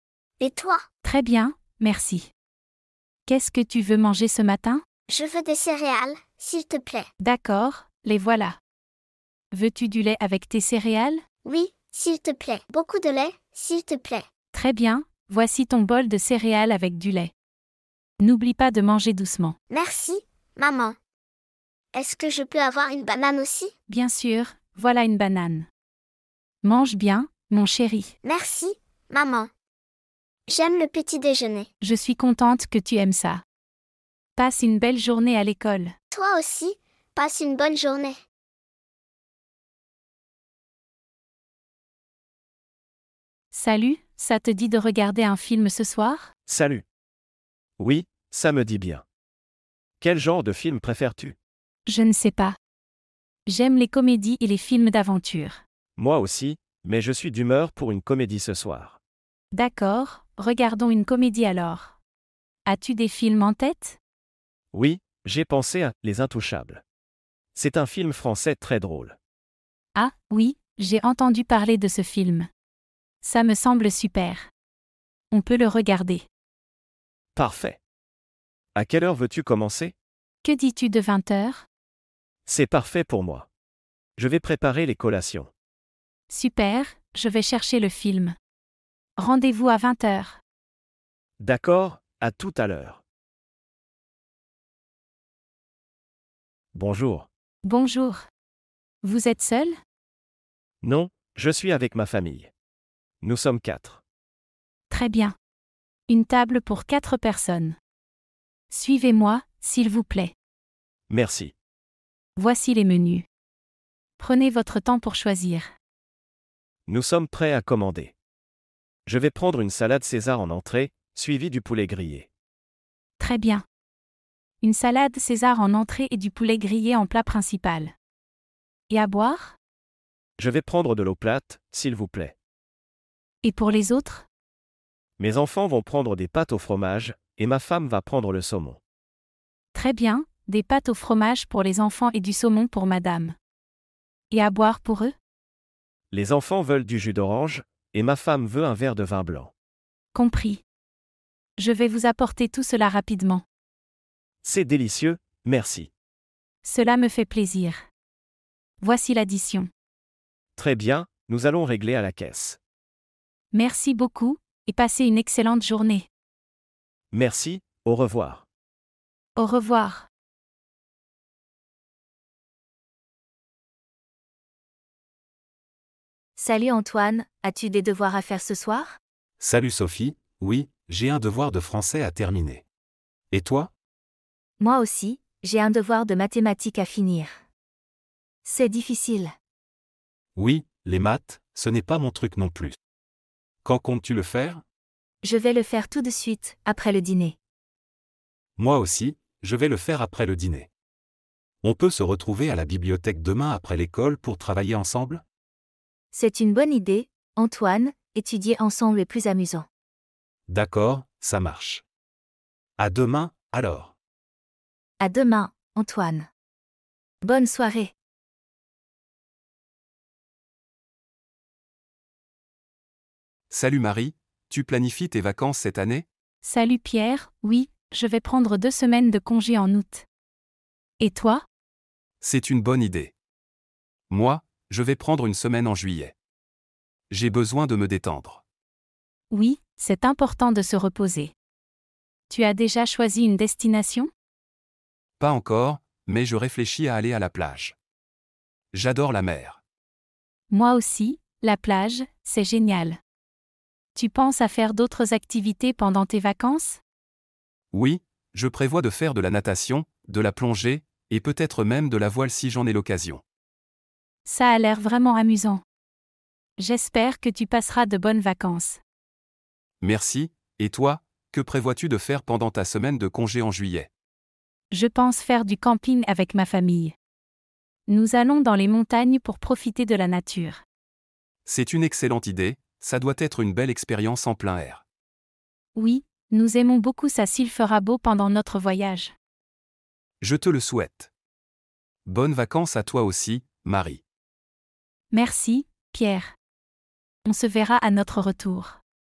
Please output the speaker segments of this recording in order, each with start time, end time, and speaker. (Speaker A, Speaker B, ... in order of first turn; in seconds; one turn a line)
Speaker A: 0.4-0.8
Speaker B: 1.0-2.3
Speaker B: 3.2-4.8
Speaker A: 5.1-7.1
Speaker B: 7.2-8.6
Speaker B: 9.5-11.2
Speaker A: 11.4-14.3
Speaker B: 14.5-17.3
Speaker B: 18.2-19.5
Speaker A: 19.7-21.0
Speaker A: 21.9-23.7
Speaker B: 23.9-25.7
Speaker B: 26.6-28.1
Speaker A: 28.2-29.5
Speaker A: 30.5-31.7
Speaker B: 31.8-33.4
Speaker B: 34.4-35.9
Speaker A: 36.1-38.2
Speaker B: 43.5-46.3
Speaker C: 46.5-46.8
Speaker C: 47.8-49.0
Speaker C: 50.0-51.4
Speaker B: 51.9-52.6
Speaker B: 53.5-55.6
Speaker C: 56.0-59.0
Speaker B: 59.5-62.0
Speaker B: 62.6-64.0
Speaker C: 64.7-66.8
Speaker C: 67.5-69.2
Speaker B: 69.9-72.5
Speaker B: 73.2-74.5
Speaker B: 75.3-76.2
Speaker C: 77.3-77.8
Speaker C: 78.8-79.9
Speaker B: 80.4-81.7
Speaker C: 82.5-83.5
Speaker C: 84.2-85.5
Speaker B: 86.3-88.3
Speaker B: 89.2-90.4
Speaker C: 91.4-93.0
Speaker C: 96.7-97.3
Speaker B: 97.6-98.2
Speaker B: 99.0-99.8
Speaker C: 100.8-102.5
Speaker C: 103.2-104.0
Speaker B: 104.9-105.3
Speaker B: 106.1-107.8
Speaker B: 108.7-110.3
Speaker C: 111.1-111.5
Speaker B: 112.3-113.2
Speaker B: 114.2-115.7
Speaker C: 116.9-118.1
Speaker C: 119.1-122.3
Speaker B: 123.2-123.6
Speaker B: 124.6-127.9
Speaker B: 128.9-129.6
Speaker C: 130.4-132.3
Speaker B: 133.4-134.2
Speaker C: 135.2-138.8
Speaker B: 139.7-143.3
Speaker B: 144.3-145.1
Speaker C: 146.1-149.5
Speaker B: 150.1-150.6
Speaker B: 151.6-153.4
Speaker C: 154.4-155.9
Speaker B: 156.6-157.8
Speaker B: 158.8-159.7
Speaker C: 160.6-162.6
Speaker B: 163.5-166.1
Speaker C: 167.1-168.4
Speaker B: 169.4-170.1
Speaker D: 176.4-179.0
Speaker E: 179.4-182.6
Speaker E: 183.3-183.7
Speaker D: 184.6-187.4
Speaker D: 188.4-189.3
Speaker E: 190.3-192.8
Speaker E: 193.6-194.6
Speaker D: 195.2-197.4
Speaker E: 198.6-200.7
Speaker E: 201.6-205.2
Speaker D: 206.1-209.7
Speaker E: 210.5-211.8
Speaker E: 212.8-213.9
Speaker D: 215.0-216.3
Speaker D: 217.2-217.9
Speaker E: 223.5-226.1
Speaker B: 226.4-230.1
Speaker B: 231.0-231.4
Speaker E: 232.2-233.1
Speaker E: 234.1-236.2
Speaker E: 237.1-238.4
Speaker B: 239.3-241.3
Speaker B: 242.3-244.1
Speaker E: 245.2-247.8
Speaker E: 248.7-249.6
Speaker B: 250.5-253.0
Speaker B: 253.9-256.8
Speaker E: 257.7-263.2
Speaker B: 264.2-265.6
Speaker B: 266.6-268.8
Speaker E: 269.8-273.9
Speaker B: 274.7-276.9
Speaker B: 277.9-280.6
Speaker E: 281.4-284.8
Speaker B: 285.8-289.1
Speaker E: 290.2-291.1
Speaker E: 292.1-294.0
Speaker B: 295.1-296.3
Speaker B: 297.2-298.8